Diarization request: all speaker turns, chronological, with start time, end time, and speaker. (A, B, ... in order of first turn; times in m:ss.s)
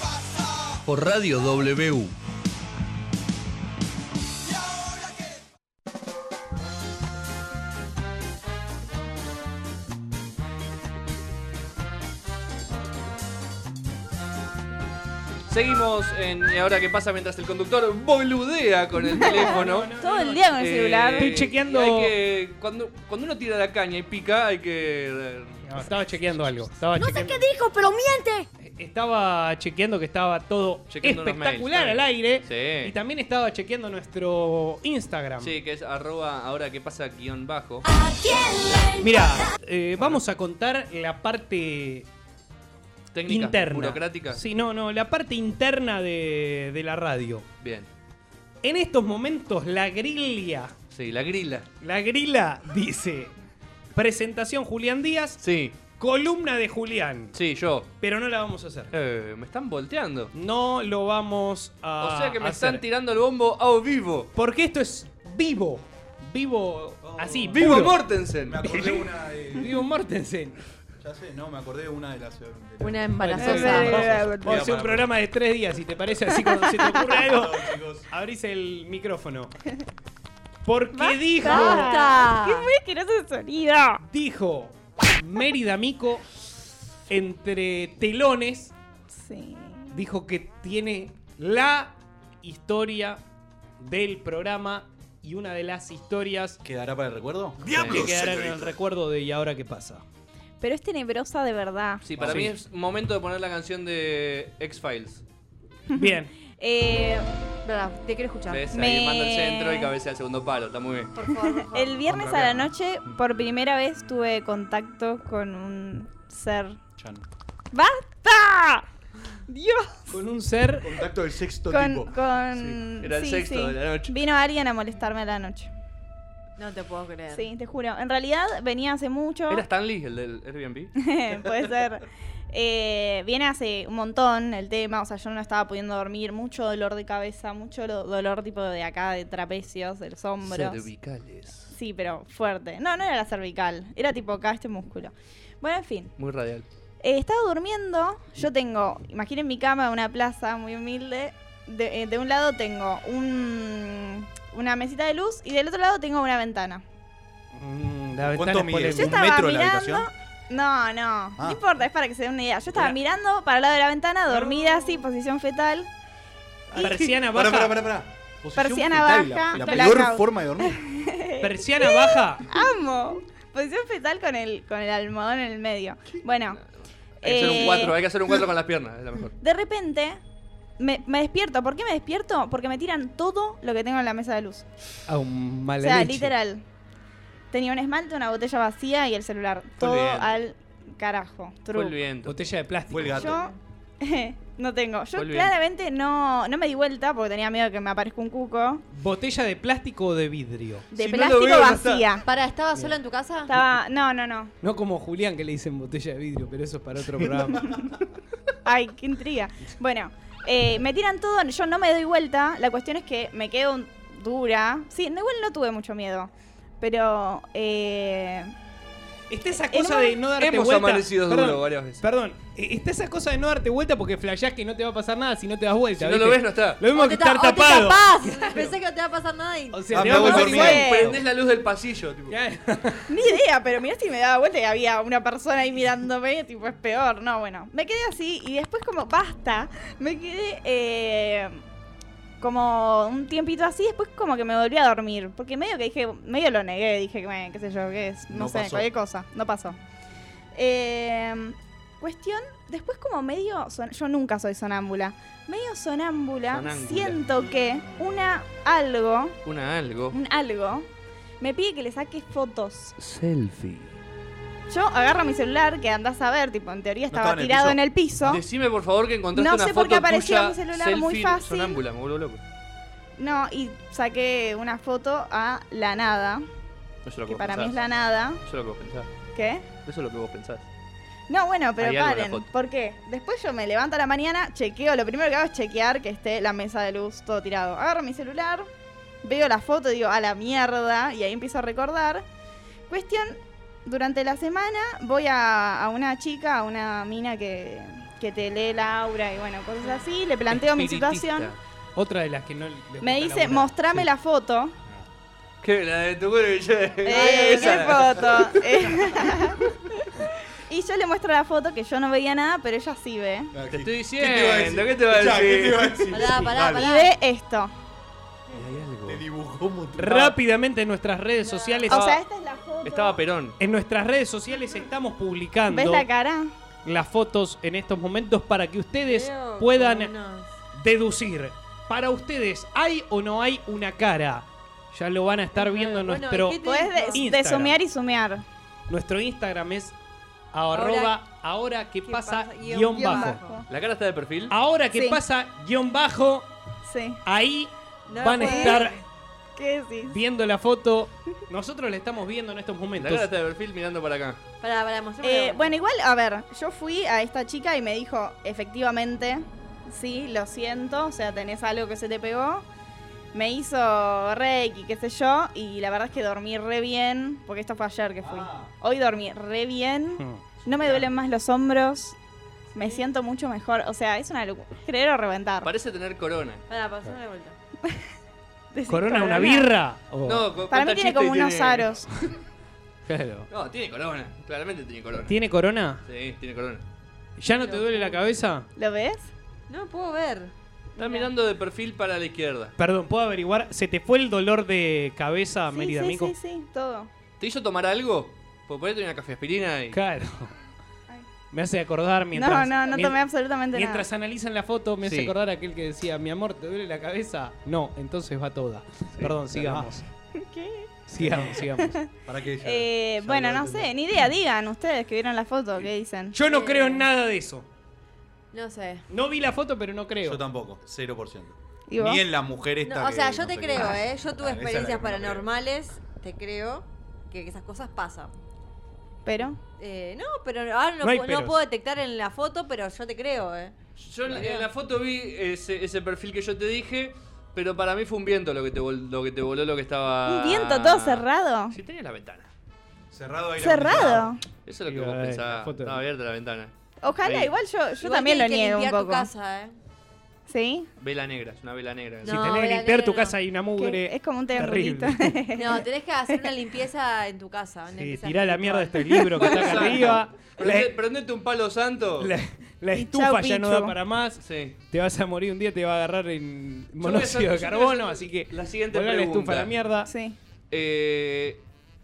0:00.8-0:02.1 A
0:15.5-0:19.9 A
0:19.2-0:20.6 B
0:19.2-0:21.4 C
0:20.5-0:26.6 A
0:21.2-0:22.1 B
0:25.7-0:27.6 B
0:28.6-0:35.6 B
0:30.9-0:32.9 A
0:35.4-0:37.9 A
0:39.0-0:42.1 B
0:43.1-0:44.4 A
0:43.3-0:47.4 B
0:47.6-0:47.9 A
0:48.6-0:50.7 B
0:50.9-0:51.6 A
0:51.8-0:53.3 B
0:53.9-0:55.4 B
0:55.4-0:55.8 A
0:56.0-0:57.3 B
0:57.3-0:57.9 A
0:58.0-0:58.9 B
0:58.9-1:00.3 A
1:00.3-1:02.8 B
1:02.0-1:04.3 A
1:04.3-1:08.0 B
1:07.0-1:09.8 D
1:07.5-1:08.6 A
1:08.6-1:10.6 B
1:11.0-1:15.1 D
1:12.8-1:14.0 E
1:13.2-1:19.5 B
1:13.4-1:14.6 C
1:17.0-1:18.1 D
1:20.6-1:22.0 B
1:20.9-1:24.0 C
1:21.4-1:22.7 E
1:24.1-1:26.2 B
1:27.1-1:28.7 B
1:29.1-1:30.0 C
1:29.9-1:33.2 B
1:33.8-1:36.6 B
1:36.6-1:38.7 D
1:37.6-1:40.0 B
1:37.6-1:38.1 A
1:40.6-1:42.0 C
1:42.0-1:45.2 A
1:42.2-1:42.6 D
1:45.9-1:47.2 C
1:45.9-1:46.3 B
1:47.6-1:48.7 E
1:48.5-1:51.1 A
1:48.7-1:49.9 C
1:51.1-1:52.2 E
1:51.4-1:56.8 C
1:52.1-1:52.7 D
1:57.0-1:57.2 D
1:57.7-1:58.8 C
1:59.5-2:00.2 C
2:00.1-2:00.9 B
2:00.8-2:02.1 D
2:01.7-2:05.7 C
2:02.5-2:04.2 A
2:06.6-2:07.5 E
2:07.3-2:09.6 C
2:09.5-2:10.9 A
2:11.0-2:20.9 C
2:20.4-2:21.7 A
2:21.7-2:26.1 C
2:26.2-2:26.6 A
2:27.0-2:36.8 C
2:37.5-2:39.2 B
2:38.3-2:40.1 D
2:38.9-2:45.9 C
2:44.3-2:45.1 B
2:46.7-2:47.8 B
2:46.8-2:47.0 C
2:47.3-2:50.8 D
2:48.6-2:56.6 C
2:49.5-2:50.0 B
2:51.4-2:52.5 B
2:57.2-2:59.4 A
2:57.2-2:58.0 C
2:59.4-3:00.2 C
3:00.8-3:04.6 C
3:05.1-3:06.3 B
3:05.8-3:06.6 C
3:07.5-3:12.0 C
3:09.8-3:10.4 A
3:11.7-3:12.3 A
3:12.2-3:13.3 B
3:12.9-3:13.4 D
3:13.2-3:18.8 C
3:13.3-3:13.6 E
3:15.1-3:15.5 A
3:18.9-3:20.9 B
3:20.9-3:22.0 A
3:20.9-3:22.2 C
3:22.2-3:23.5 E
3:23.5-3:24.5 C
3:24.6-3:27.8 B
3:28.6-3:38.5 C
3:39.3-3:48.7 B
3:39.6-3:40.2 C
3:40.4-3:42.0 A
3:46.0-3:46.8 A
3:46.9-3:50.6 E
3:49.7-3:50.7 B
3:49.9-3:51.2 D
3:50.0-3:52.4 A
3:50.4-3:51.2 C
3:52.3-3:53.2 B
3:53.1-4:01.6 C
4:02.4-4:09.8 C
4:08.3-4:08.9 D
4:10.5-4:19.4 C
4:16.5-4:17.2 A
4:19.4-4:20.2 A
4:20.1-4:20.9 C
4:21.4-4:23.0 C
4:23.0-4:24.0 A
4:24.7-4:28.4 C
4:27.1-4:27.8 D
4:28.2-4:32.4 A
4:29.3-4:31.8 C
4:33.2-4:36.4 C
4:37.0-4:37.8 A
4:37.3-4:38.4 C
4:38.4-4:39.1 A
4:39.3-4:39.6 C
4:39.8-4:40.7 A
4:41.3-4:48.7 C
4:41.8-4:42.5 A
4:49.2-4:52.2 C
4:52.9-5:01.5 C
5:00.5-5:01.3 B
5:01.2-5:01.6 A
5:01.9-5:04.1 B
5:03.0-5:04.7 C
5:05.6-5:08.5 A
5:07.0-5:13.5 C
5:07.1-5:08.1 E
5:13.5-5:16.9 D
5:13.7-5:16.1 A
5:16.1-5:17.2 E
5:16.7-5:17.7 C
5:18.5-5:19.2 A
5:19.0-5:20.4 D
5:20.0-5:22.0 B
5:21.4-5:21.9 E
5:21.9-5:23.2 C
5:21.9-5:22.2 A
5:22.8-5:23.6 A
5:23.6-5:26.1 B
5:25.7-5:26.5 C
5:26.8-5:30.1 B
5:29.0-5:30.5 E
5:30.7-5:37.8 B
5:35.6-5:37.3 E
5:36.6-5:38.4 C
5:38.9-5:39.9 B
5:40.5-5:43.4 B
5:40.7-5:41.2 E
5:42.0-5:43.7 E
5:42.9-5:43.6 C
5:43.7-5:44.5 A
5:44.5-5:46.5 B
5:44.9-5:45.2 C
5:46.8-5:47.2 C
5:47.2-5:49.0 B
5:48.1-5:49.0 E
5:48.4-5:48.8 C
5:49.6-5:50.2 C
5:50.1-5:53.3 B
5:52.9-5:54.4 A
5:54.6-5:55.8 E
5:55.2-6:02.6 C
6:03.3-6:12.2 C
6:08.2-6:08.7 D
6:10.2-6:10.4 B
6:10.7-6:11.0 D
6:12.7-6:15.7 C
6:12.8-6:13.1 E
6:15.6-6:16.6 A
6:16.7-6:17.5 E
6:18.7-6:19.7 C
6:18.9-6:20.5 B
6:20.2-6:22.0 A
6:20.7-6:22.1 C
6:23.0-6:23.5 B
6:23.5-6:25.4 A
6:25.3-6:26.0 B
6:26.0-6:26.8 A
6:27.4-6:28.7 B
6:27.5-6:28.2 E
6:28.8-6:29.3 C
6:29.7-6:31.3 E
6:31.0-6:32.7 A
6:32.8-6:36.3 B
6:35.7-6:37.1 C
6:37.4-6:40.0 A
6:39.9-6:40.5 B
6:41.5-6:43.2 B
6:42.3-6:44.0 C
6:43.7-6:50.0 B
6:45.0-6:45.3 A
6:49.2-6:49.9 D
6:50.4-6:50.9 C
6:51.1-6:52.0 B
6:51.2-6:51.7 D
6:52.2-6:53.9 D
6:52.6-6:56.4 C
6:56.3-6:57.7 B
6:56.4-6:57.1 E
6:58.5-6:59.0 E
6:59.1-7:00.4 B
7:00.2-7:05.5 D
7:01.9-7:02.2 C
7:02.8-7:08.3 E
7:09.2-7:09.6 C
7:09.8-7:14.7 E
7:11.0-7:11.6 B
7:14.0-7:22.5 A
7:20.2-7:21.8 C
7:23.1-7:24.4 D
7:23.6-7:24.4 C
7:24.6-7:26.7 A
7:24.8-7:26.0 B
7:27.0-7:29.3 C
7:27.2-7:27.5 A
7:28.0-7:29.7 E
7:30.5-7:30.9 C
7:31.0-7:32.6 A
7:32.2-7:33.4 E
7:32.2-7:35.4 B
7:33.8-7:36.5 C
7:35.5-7:39.7 E
7:37.9-7:40.9 B
7:39.4-7:42.3 A
7:42.2-7:50.1 B
7:42.9-7:44.0 C
7:44.4-7:44.8 A
7:47.0-7:49.7 A
7:50.0-7:50.4 C
7:50.7-7:51.6 A